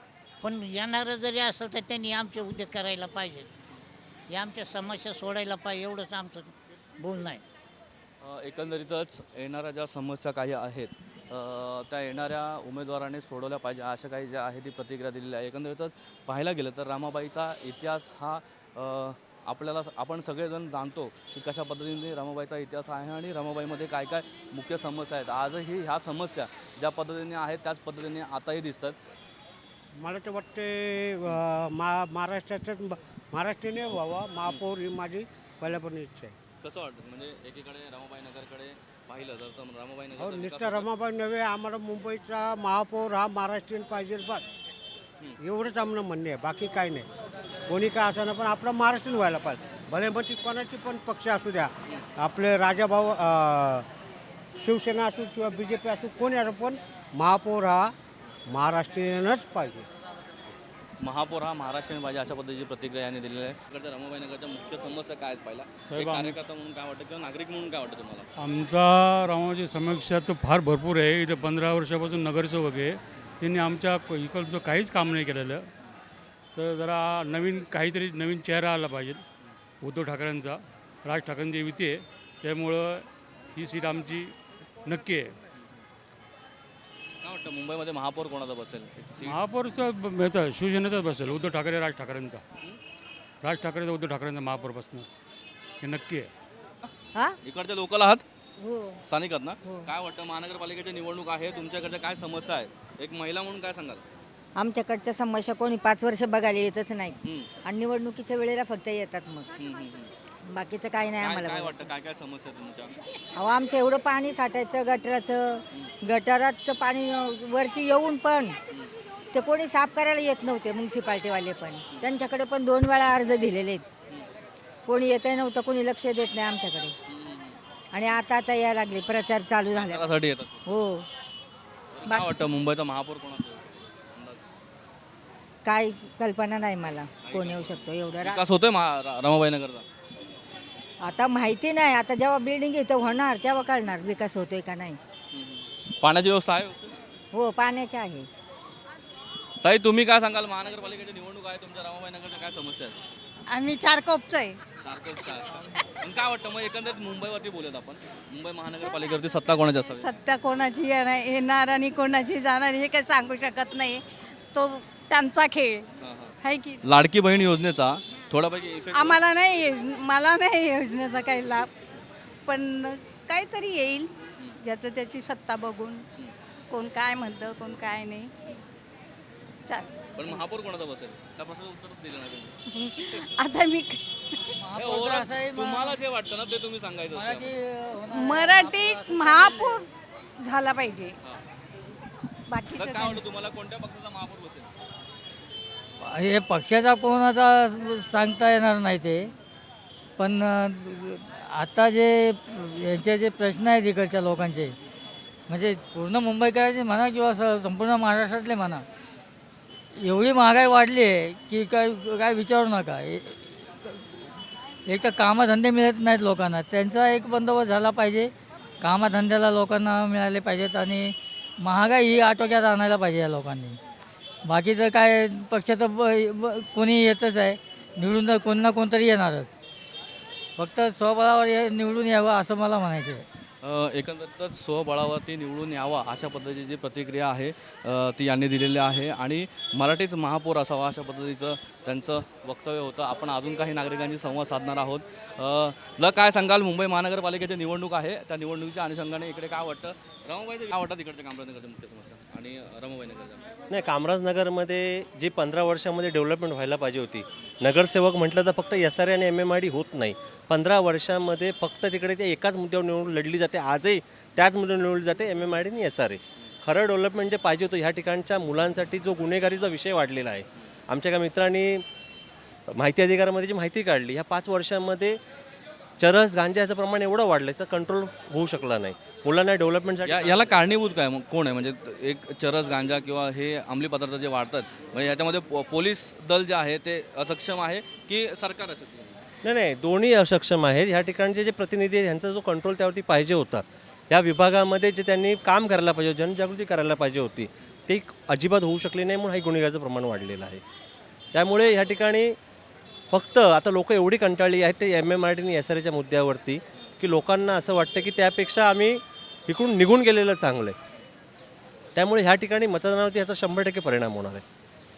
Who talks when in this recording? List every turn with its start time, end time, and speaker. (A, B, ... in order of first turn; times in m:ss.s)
0:00.4-0:03.5 A
0:04.3-0:07.4 A
0:08.2-0:29.0 B
0:30.0-0:36.4 C
0:36.6-0:40.9 B
0:40.2-0:44.4 C
0:45.4-0:47.1 C
0:47.7-0:53.9 C
0:54.6-0:57.9 C
0:58.5-0:59.9 C
1:01.0-1:08.3 B
1:05.9-1:06.4 D
1:08.4-1:15.7 D
1:16.6-1:19.2 D
1:19.8-1:24.3 D
1:24.8-1:25.4 D
1:27.2-1:29.4 B
1:29.2-1:32.4 D
1:33.4-1:35.1 D
1:35.8-1:36.3 D
1:37.4-1:38.2 B
1:38.6-1:39.0 E
1:39.1-1:44.0 B
1:44.6-1:49.5 E
1:47.2-1:47.5 B
1:49.6-1:50.1 B
1:50.4-1:51.9 E
1:51.2-1:53.0 B
1:53.4-1:58.6 E
1:59.3-2:03.8 E
2:04.9-2:06.9 E
2:07.1-2:07.6 B
2:07.9-2:10.1 E
2:09.7-2:10.7 B
2:10.7-2:11.1 E
2:11.9-2:14.4 B
2:15.7-2:18.4 E
2:17.2-2:19.8 B
2:21.0-2:25.0 E
2:25.3-2:26.9 B
2:27.3-2:28.3 E
2:29.6-2:33.0 B
2:33.5-2:34.6 F
2:34.8-2:40.1 B
2:39.9-2:45.9 F
2:46.0-2:49.2 B
2:46.4-2:46.8 F
2:48.9-2:51.7 F
2:52.5-2:56.0 F
2:56.7-2:58.3 F
2:59.7-3:00.4 F
3:00.2-3:02.6 B
3:02.7-3:04.1 F
3:04.6-3:06.0 G
3:04.8-3:07.5 B
3:07.1-3:09.8 G
3:08.1-3:09.9 F
3:10.4-3:11.1 F
3:12.5-3:13.2 F
3:12.7-3:14.7 B
3:16.0-3:19.3 G
3:20.2-3:24.8 G
3:25.5-3:28.8 G
3:30.0-3:34.3 G
3:34.9-3:43.8 G
3:44.4-3:49.5 G
3:50.6-3:53.2 G
3:53.6-4:13.5 B
4:13.7-4:31.8 H
4:32.7-4:35.2 H
4:36.0-4:40.6 H
4:40.0-4:49.2 B
4:49.4-5:00.6 H
5:01.3-5:02.4 H
5:03.1-5:10.8 H
5:12.0-5:14.4 H